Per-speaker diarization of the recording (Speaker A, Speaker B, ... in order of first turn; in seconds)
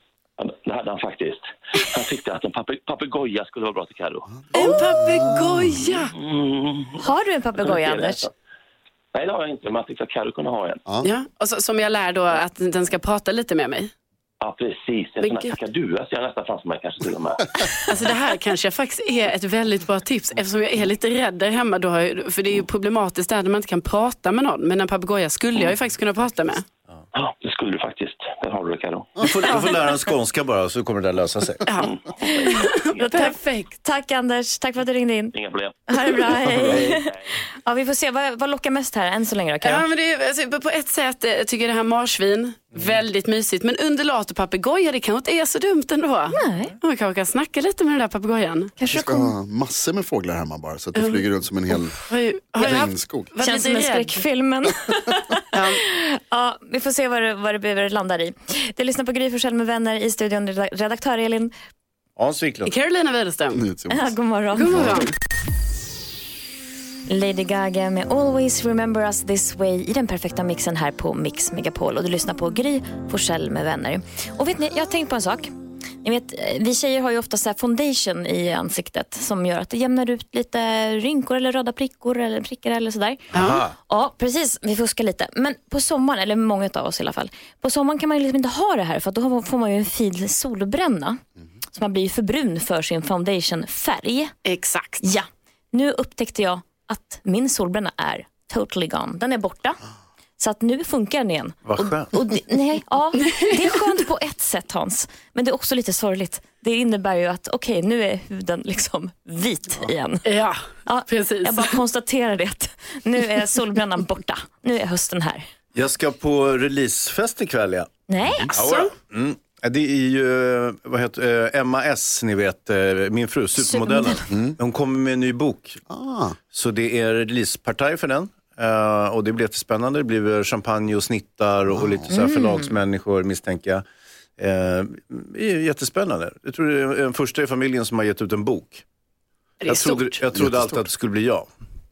Speaker A: 0.4-4.4, 5.8-8.3, 9.1-10.8, 14.4-17.6, 27.1-29.2, 35.3-37.2
Speaker B: 4.5-6.1, 11.0-13.9, 15.2-15.6, 17.9-26.6, 29.4-30.0, 31.6-33.7, 39.6-48.8, 51.0-51.2, 52.0-54.2, 55.5-55.8, 62.6-63.6, 64.5-65.1, 83.3-83.6, 94.5-95.0, 103.2-103.7, 110.2-111.8, 118.6-118.9, 139.6-140.2
Speaker C: 7.0-8.2, 33.0-35.3, 35.9-39.8, 46.3-46.7, 48.8-49.3, 53.4-61.5, 63.9-65.0, 67.1-75.5, 76.0-83.3, 83.9-91.2, 91.7-94.3, 95.0-99.8, 100.4-110.2, 110.8-115.5, 118.1-118.5, 123.6-124.2, 132.1-132.7
Speaker D: 29.2-31.6, 36.5-37.0, 62.2-62.7, 83.3-83.7, 101.6-102.1, 115.7-117.9, 118.5-125.8, 126.5-133.8, 134.4-138.8, 139.7-141.5
Speaker E: 48.9-52.0, 52.5-53.3, 63.5-64.1, 124.3-124.6, 125.9-126.4, 131.7-132.1, 140.3-140.8